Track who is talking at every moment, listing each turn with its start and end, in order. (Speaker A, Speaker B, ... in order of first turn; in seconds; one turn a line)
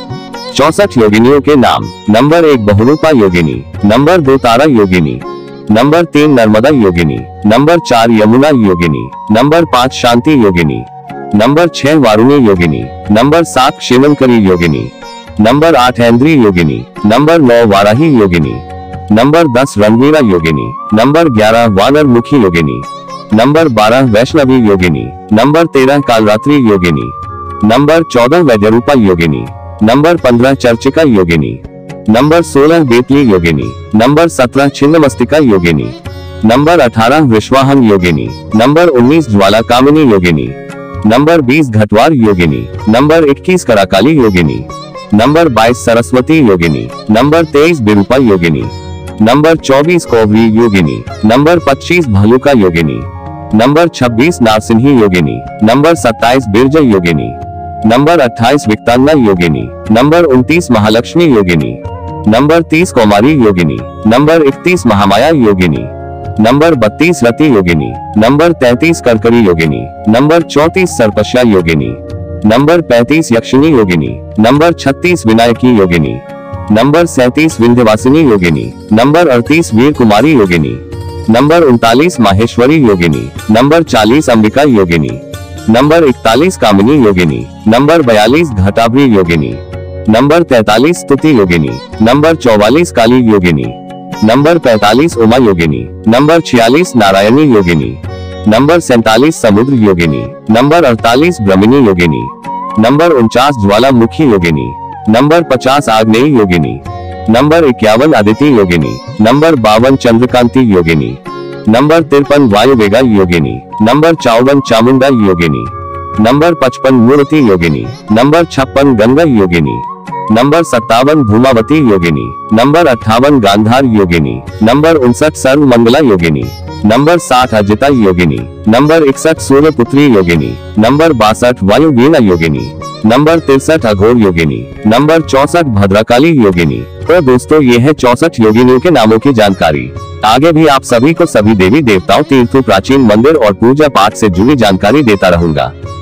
Speaker A: 0.5-145.7